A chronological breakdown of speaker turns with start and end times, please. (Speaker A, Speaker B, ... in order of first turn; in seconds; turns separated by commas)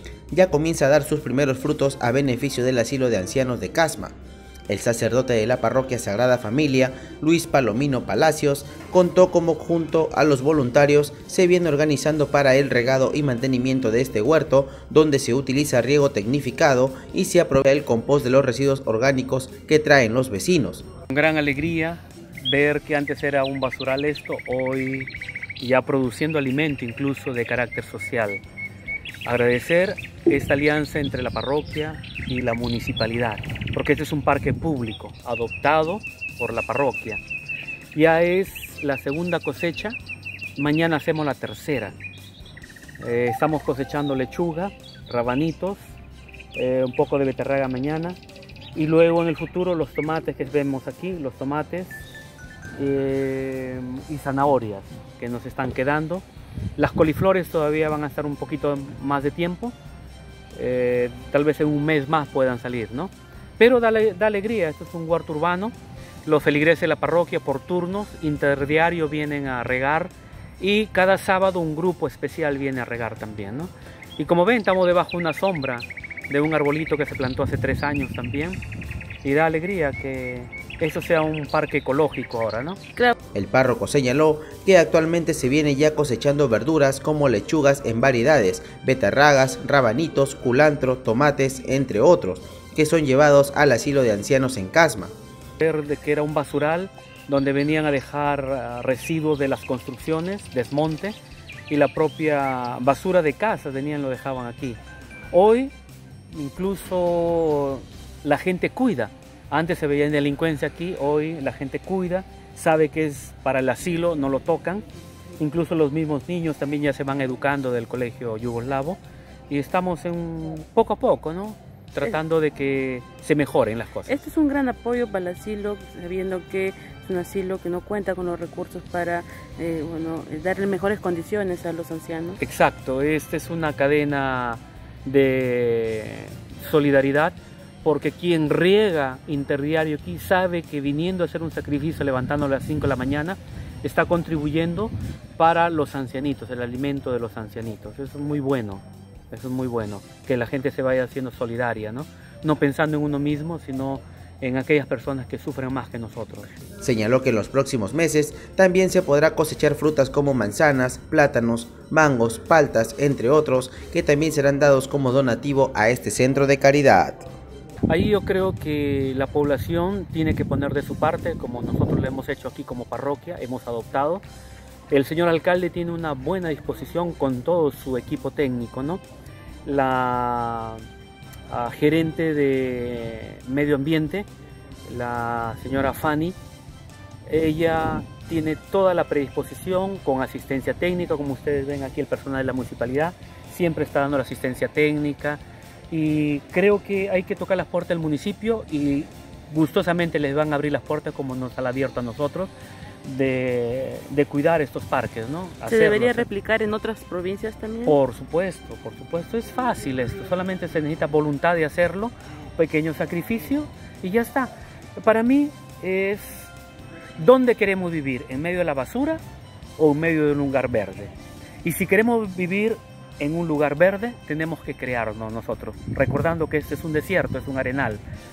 Speaker A: 0.3-4.2, Speaker A: 4.7-20.9, Speaker B: 21.1-28.4, Speaker B: 29.2-37.2, Speaker B: 37.9-40.0, Speaker B: 40.5-42.0, Speaker B: 43.0-45.8, Speaker B: 46.5-48.2, Speaker B: 48.8-52.0, Speaker B: 52.8-56.2, Speaker B: 56.8-59.7, Speaker B: 60.5-65.7, Speaker B: 66.2-78.6, Speaker B: 79.2-82.8, Speaker A: 83.3-95.1, Speaker B: 95.6-101.2, Speaker B: 101.7-104.8, Speaker B: 105.3-105.7, Speaker B: 106.3-114.8, Speaker B: 115.4-119.0, Speaker B: 119.5-124.2, Speaker C: 124.1-132.4, Speaker B: 132.4-156.5, Speaker A: 156.8-167.2, Speaker B: 167.9-174.2, Speaker B: 174.9-179.0, Speaker B: 179.6-180.8, Speaker B: 181.5-184.3, Speaker B: 184.8-186.3, Speaker B: 187.2-202.5, Speaker B: 203.0-206.3, Speaker C: 205.7-208.0, Speaker B: 207.8-216.5, Speaker B: 217.2-219.2, Speaker B: 219.8-221.1, Speaker B: 221.6-228.0